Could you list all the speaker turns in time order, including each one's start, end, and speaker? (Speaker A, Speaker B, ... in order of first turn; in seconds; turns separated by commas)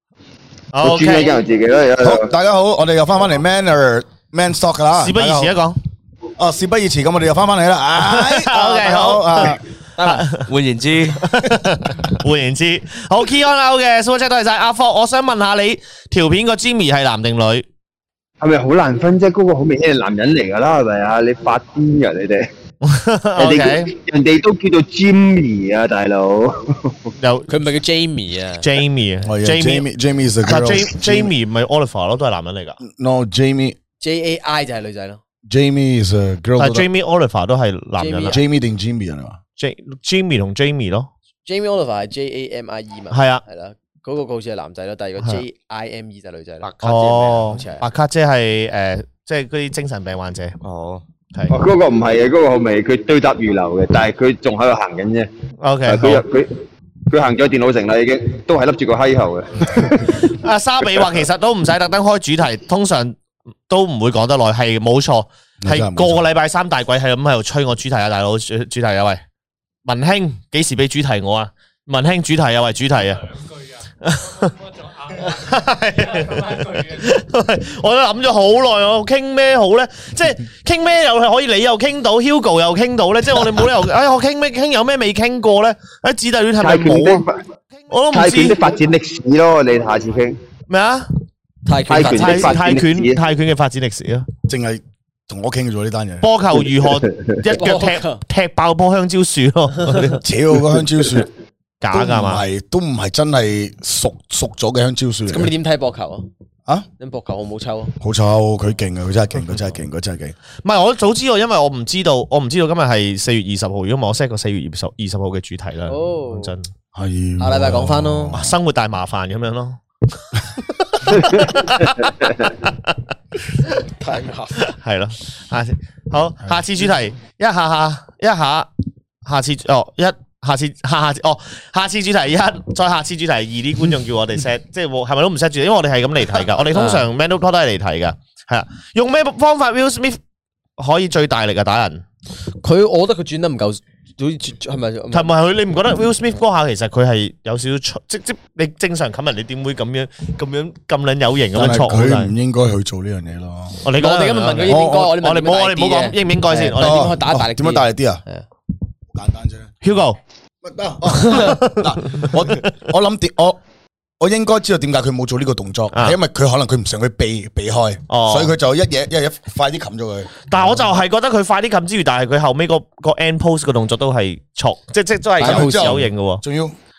Speaker A: 0.7-1.3, Speaker B: 0.8-2.3, Speaker C: 2.0-5.5, Speaker A: 5.0-5.8, Speaker C: 6.4-9.6, Speaker A: 8.0-10.5, Speaker D: 10.3-11.2, Speaker A: 11.2-17.6, Speaker B: 18.4-22.5, Speaker A: 22.8-23.9, Speaker B: 23.4-27.1, Speaker A: 27.2-27.6, Speaker E: 27.5-28.7, Speaker A: 28.6-29.9, Speaker C: 29.2-31.3, Speaker A: 30.4-32.8, Speaker C: 32.8-33.8, Speaker E: 34.0-35.2, Speaker C: 35.5-36.9, Speaker A: 36.6-38.4, Speaker E: 38.0-38.4, Speaker C: 38.3-39.4, Speaker A: 39.6-41.1, Speaker E: 41.5-47.9, Speaker A: 43.1-43.4, Speaker D: 46.6-47.4, Speaker A: 46.8-50.6, Speaker D: 50.6-51.0, Speaker B: 51.5-55.3, Speaker A: 55.6-56.2, Speaker B: 55.9-60.4, Speaker A: 60.1-63.2, Speaker A: 63.7-69.2, Speaker C: 65.6-66.3, Speaker A: 69.8-73.4, Speaker A: 74.0-87.2, Speaker B: 86.6-87.4, Speaker A: 87.9-88.6, Speaker B: 88.1-90.4, Speaker A: 90.7-91.1, Speaker E: 91.7-92.6, Speaker B: 91.9-93.2, Speaker A: 91.9-94.3, Speaker C: 94.5-96.3, Speaker A: 96.2-100.2, Speaker B: 96.7-97.3, Speaker E: 97.5-98.2, Speaker C: 100.2-101.3, Speaker A: 101.8-102.4, Speaker C: 101.9-105.5, Speaker E: 105.3-106.3, Speaker E: 107.0-108.0, Speaker C: 108.0-110.3, Speaker A: 110.6-116.7, Speaker E: 115.9-116.5, Speaker C: 117.0-118.6, Speaker E: 117.4-118.4, Speaker A: 118.3-123.8, Speaker E: 123.8-124.6, Speaker A: 124.6-128.7, Speaker A: 129.2-140.2, Speaker E: 136.7-137.1, Speaker A: 140.8-142.0, Speaker E: 142.6-145.3, Speaker A: 145.1-152.3, Speaker C: 151.5-153.8, Speaker A: 153.8-157.1, Speaker E: 153.9-158.4, Speaker C: 154.6-155.2, Speaker C: 156.7-158.2, Speaker C: 159.1-159.8, Speaker A: 159.8-160.2, Speaker C: 160.6-163.6, Speaker A: 161.1-162.7, Speaker C: 164.2-170.9, Speaker A: 165.9-166.2, Speaker A: 168.1-168.6, Speaker A: 170.5-176.4, Speaker E: 175.4-176.1, Speaker C: 175.4-176.8